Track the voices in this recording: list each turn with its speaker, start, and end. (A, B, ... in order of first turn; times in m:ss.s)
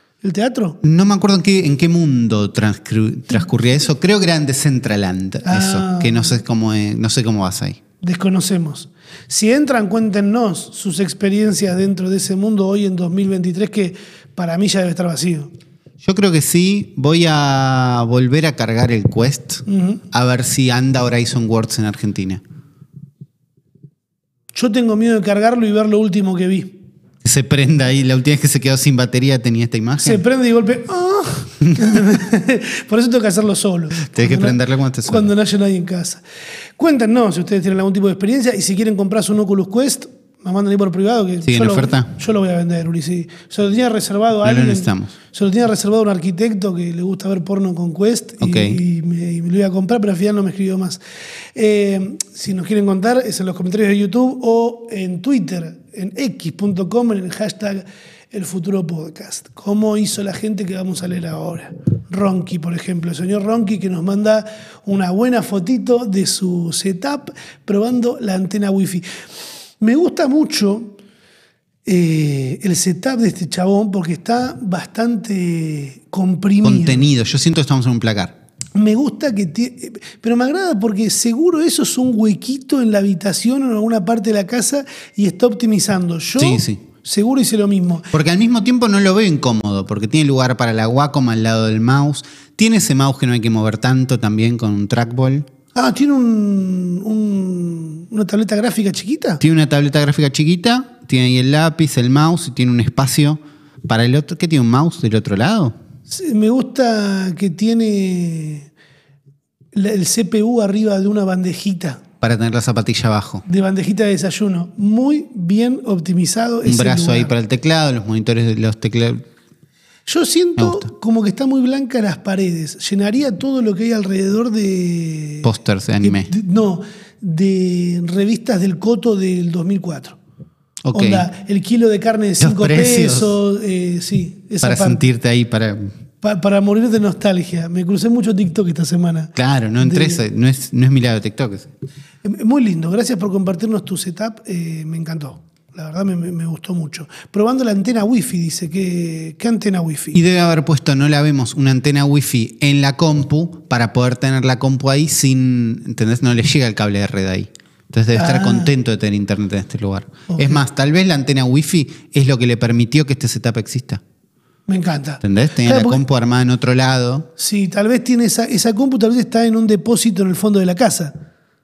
0:00.2-0:00.8 A
0:00.8-0:07.8 B
0:05.4-0:06.4 A
0:08.0-0:15.5 A
0:16.0-0:22.4 B
0:19.6-0:20.0 A
0:24.5-0:26.8 A
0:27.2-0:30.2 B
0:30.0-0:36.2 A
0:31.8-0:32.0 B
0:34.1-0:35.3 B
0:36.8-0:51.0 A
0:41.4-0:42.1 B
0:44.4-0:45.1 B
0:48.4-0:48.8 B
0:51.6-1:09.1 A
1:09.8-1:11.0 A
1:11.9-1:17.1 A
1:16.6-1:18.4 B
1:18.8-1:28.1 A
1:26.4-1:26.8 B
1:28.1-1:35.5 B
1:35.8-1:39.4 A
1:39.4-1:45.8 B
1:46.1-1:48.7 A
1:49.7-1:52.0 A
1:52.2-1:53.4 B
1:53.4-1:57.3 A
1:56.6-1:59.2 B
2:00.1-2:05.5 A
2:00.6-2:00.9 B
2:05.4-2:06.3 B
2:06.0-2:10.2 A
2:10.8-2:11.3 B
2:10.9-2:15.1 A
2:12.4-2:13.4 B
2:14.6-2:15.9 B
2:16.2-2:20.2 A
2:19.4-2:21.7 B
2:22.2-2:30.2 A
2:30.1-2:44.0 B
2:38.1-2:38.7 A
2:40.3-2:40.6 A
2:44.7-2:46.0 A
2:45.2-2:47.3 B
2:47.4-2:51.1 A